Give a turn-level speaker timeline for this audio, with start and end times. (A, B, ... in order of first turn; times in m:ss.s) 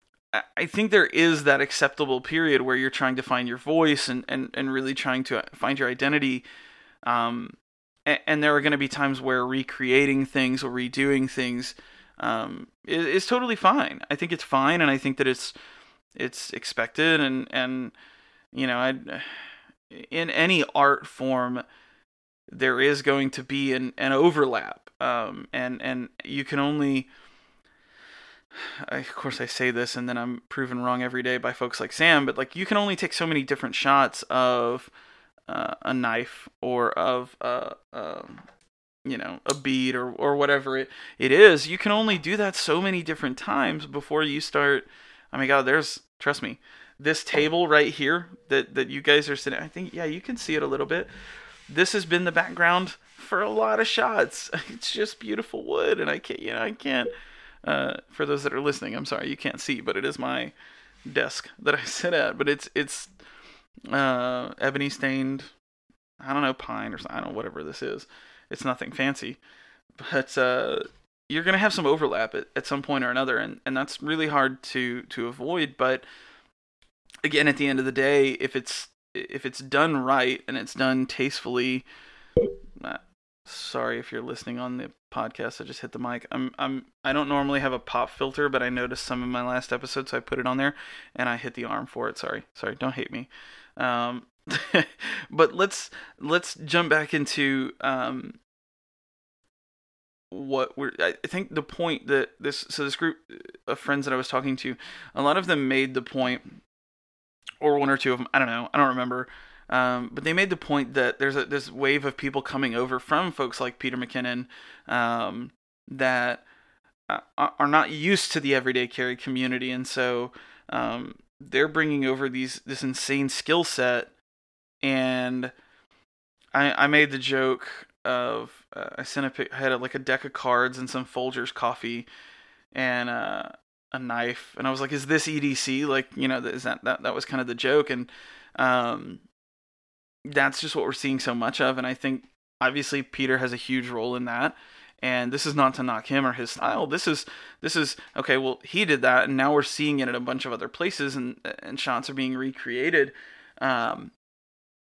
0:00.3-0:06.4 A
0:07.0-0:15.5 A
0:16.2-0:17.9 A
0:18.5-0:21.6 A
0:22.5-0:27.1 A
0:28.5-0:34.9 A
0:35.5-0:38.4 A
0:39.0-0:51.1 A
0:51.7-0:57.1 A
0:57.6-1:00.5 A
1:01.1-1:03.1 A
1:03.9-1:05.5 A
1:06.2-1:09.4 A
1:10.0-1:16.0 A
1:17.2-1:21.8 A
1:22.8-1:38.4 A
1:40.3-1:46.6 A
1:47.6-1:56.4 A
1:57.1-2:04.1 A
2:04.8-2:05.5 A
2:06.5-2:12.1 A
2:12.7-2:19.2 A
2:20.2-2:34.1 A